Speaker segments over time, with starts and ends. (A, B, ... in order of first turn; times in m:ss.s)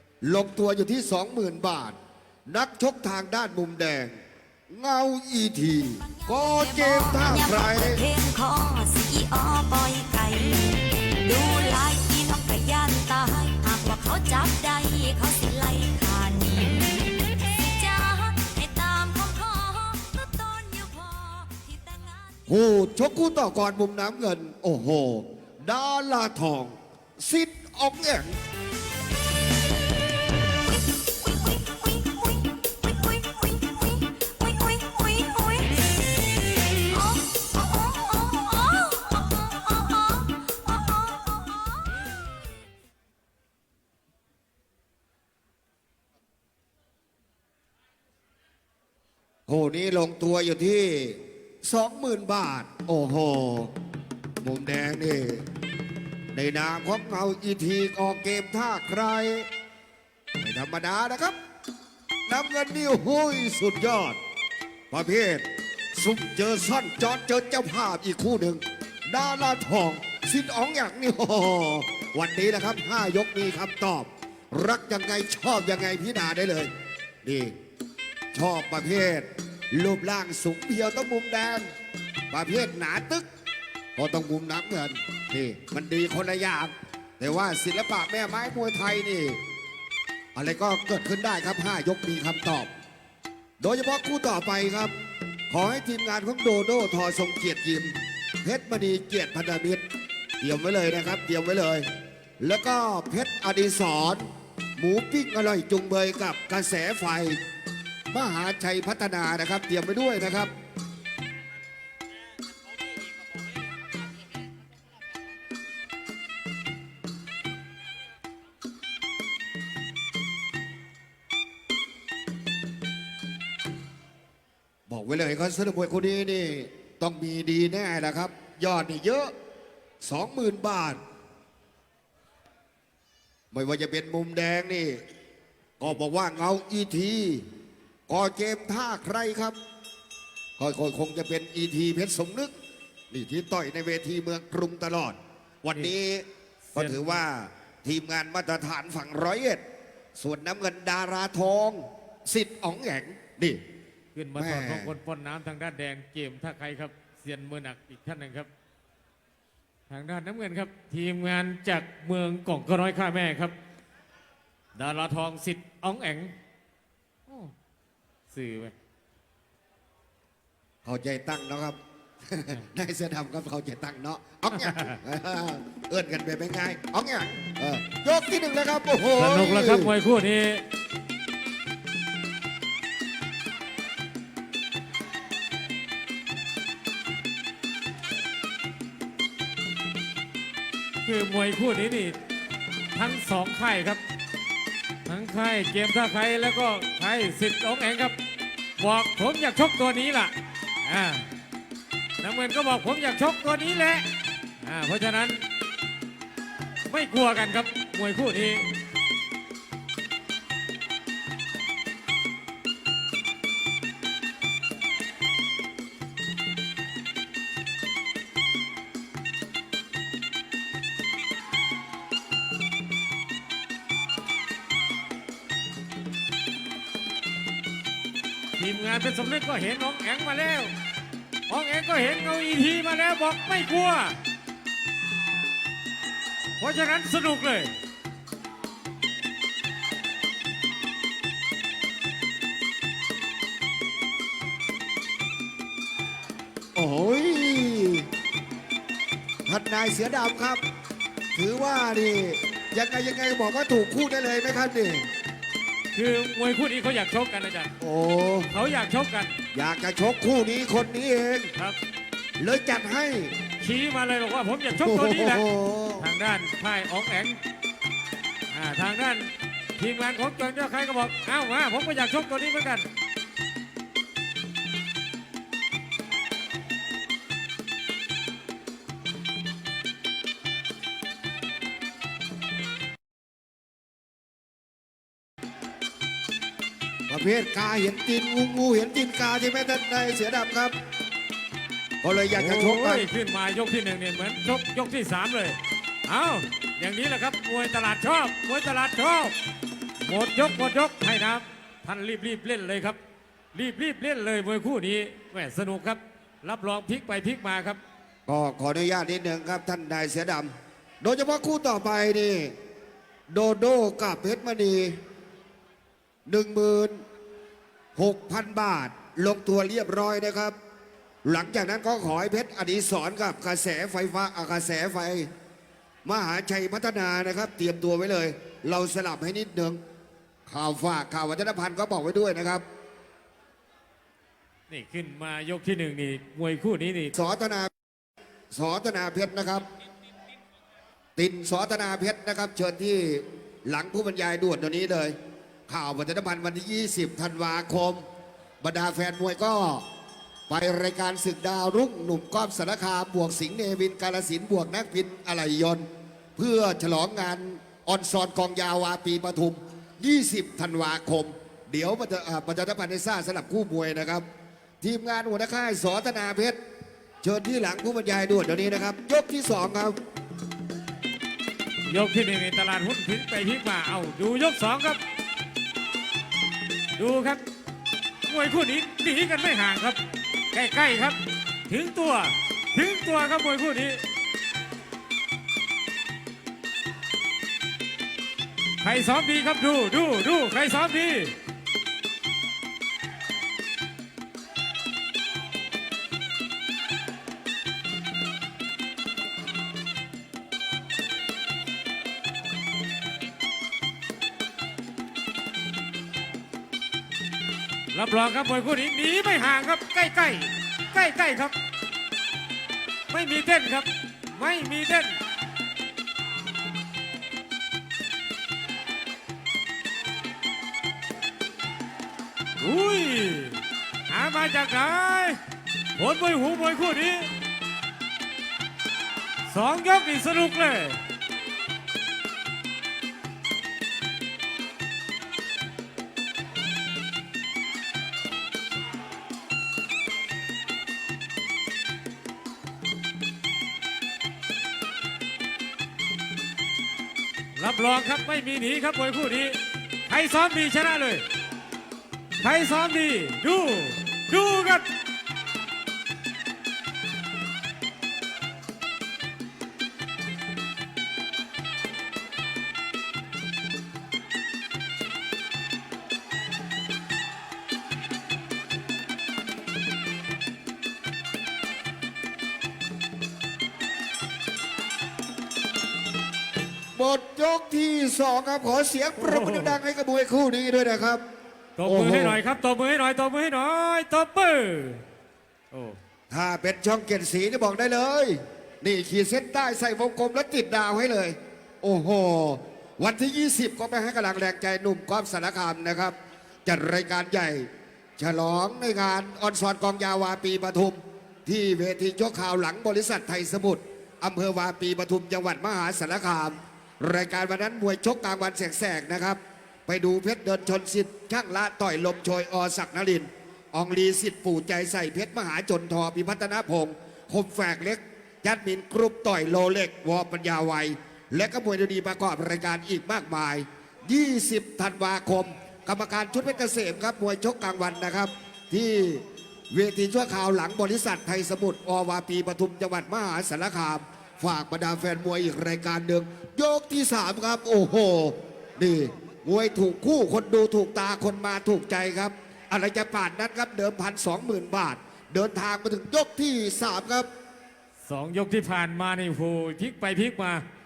0:00.2-0:02.0 A
0:02.5-0:04.2 A
0:04.7-0:08.1 A
0:06.0-0:22.4 B
0:22.5-0:28.4 A
0:31.0-0:42.0 B
0:49.5-0:53.7 A
0:54.4-0:55.4 A
0:56.3-0:59.5 A
1:00.4-1:01.4 A
1:02.3-1:04.2 A
1:04.9-1:16.7 A
1:17.2-1:17.5 A
1:18.3-1:21.7 A
1:22.3-1:23.3 A
1:24.0-1:29.4 A
1:30.4-1:32.7 A
1:33.6-1:34.9 A
1:35.5-1:39.8 A
1:40.4-1:41.9 A
1:42.4-1:44.3 A
1:44.8-1:47.4 A
1:48.1-1:50.5 A
2:04.9-2:09.3 A
2:10.0-2:11.0 A
2:13.5-2:15.0 A
2:15.8-2:17.5 A
2:18.1-2:19.6 A
2:20.6-2:22.5 A
2:23.1-2:29.6 A
2:26.7-2:27.2 C
2:30.2-2:33.6 A
2:34.1-2:38.5 C
2:34.4-2:34.9 A
2:39.9-2:43.5 C
2:44.8-2:46.3 C
2:48.3-2:48.7 C
2:50.8-2:51.8 A
2:52.3-2:59.9 A
2:54.6-2:55.0 C
2:59.2-3:00.6 C
3:11.0-3:12.2 C
3:12.9-3:14.0 C
3:15.0-3:18.2 C
3:18.8-3:21.3 C
3:22.2-3:24.1 C
3:24.6-3:25.4 C
3:26.9-3:28.7 C
3:48.6-3:50.7 C
3:51.5-3:54.2 C
3:56.6-3:57.7 C
4:06.8-4:08.1 A
4:09.5-4:10.6 A
4:11.3-4:15.1 A
4:15.9-4:17.7 C
4:17.8-4:18.5 A
4:18.5-4:19.4 C
4:19.5-4:21.5 A
4:22.4-4:23.4 A
4:23.6-4:25.4 C
4:24.8-4:26.1 A
4:26.0-4:27.4 C
4:28.5-4:32.9 C
4:47.1-4:50.8 A
4:52.0-4:53.1 A
4:52.3-4:59.4 C
5:00.0-5:03.0 C
5:03.5-5:07.8 C
5:08.3-5:12.5 A
5:13.3-5:15.0 A
5:16.3-5:17.0 A
5:18.0-5:20.6 A
5:21.2-5:25.3 A
5:26.0-5:29.8 A
5:30.5-5:32.6 A
5:34.7-5:37.1 C
5:37.1-5:37.7 A
5:38.5-5:39.6 A
5:41.2-5:45.2 A
5:45.7-5:48.0 A
5:48.6-5:49.8 A
5:50.5-6:04.2 A
6:04.8-6:06.6 A
6:07.2-6:10.0 A
6:11.9-6:15.0 C
6:17.0-6:17.4 C
6:18.3-6:20.0 C
6:20.5-6:24.0 C
6:28.8-6:31.3 C
6:47.9-6:51.5 C
6:53.1-6:55.2 C
7:02.6-7:05.4 C
7:06.0-7:07.3 C
7:09.5-7:11.0 C
7:27.6-7:31.2 C
7:32.4-7:34.9 C
7:57.0-8:01.2 A
7:59.2-7:59.8 C
8:01.8-8:05.0 C
8:01.8-8:02.4 A
8:05.7-8:06.0 C
8:06.3-8:16.2 A
8:16.7-9:07.3 A
9:08.0-9:10.6 C